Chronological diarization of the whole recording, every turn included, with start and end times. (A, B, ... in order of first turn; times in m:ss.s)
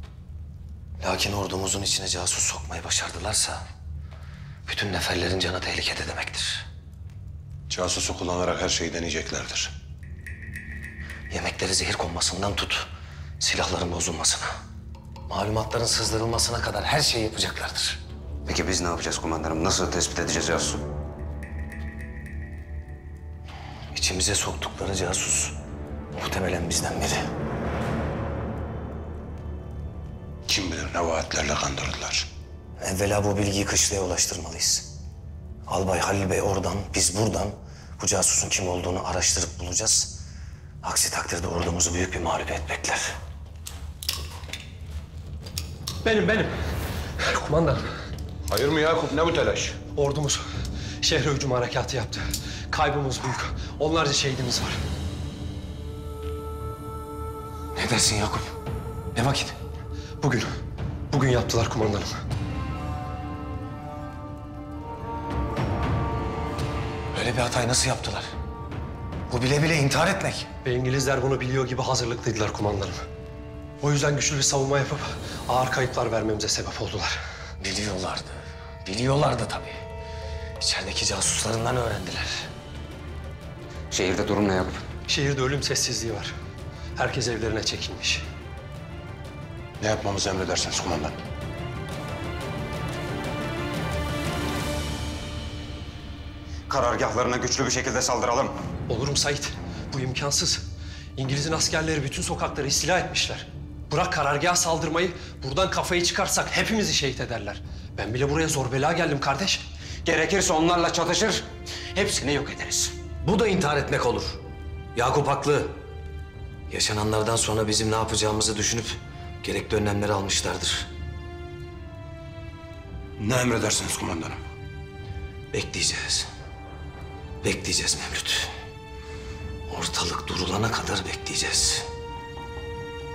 0:01.0-0:03.6 A
0:04.6-0:06.6 A
0:07.7-0:09.7 B
0:11.3-0:12.9 A
0:13.4-0:14.5 A
0:15.3-0:18.0 A
0:18.4-0:20.8 C
0:23.9-0:25.5 A
0:26.1-0:27.3 A
0:30.5-0:32.3 B
0:32.8-0:34.8 A
0:35.7-0:40.1 A
0:40.8-0:43.1 A
0:46.0-0:46.5 D
0:47.2-0:47.9 D
0:48.5-0:49.8 B
0:49.9-0:50.4 D
0:51.0-0:54.8 D
0:57.7-0:58.5 A
0:59.1-0:59.5 A
1:00.2-1:00.5 D
1:01.1-1:02.2 D
1:07.1-1:08.3 A
1:09.3-1:10.5 A
1:10.6-1:13.0 D
1:13.8-1:17.2 D
1:17.6-1:19.8 A
1:20.6-1:22.5 A
1:23.9-1:24.8 C
1:25.1-1:26.3 D
1:27.0-1:28.2 D
1:29.8-1:31.2 B
1:36.7-1:38.6 C
1:38.9-1:40.6 D
1:41.2-1:49.6 D
1:50.0-1:52.9 C
1:53.2-1:54.4 A
1:54.9-1:55.7 A
1:56.7-2:00.9 A
2:03.2-2:04.4 B
2:05.5-2:06.3 A
2:07.4-2:08.5 A
2:09.7-2:11.8 A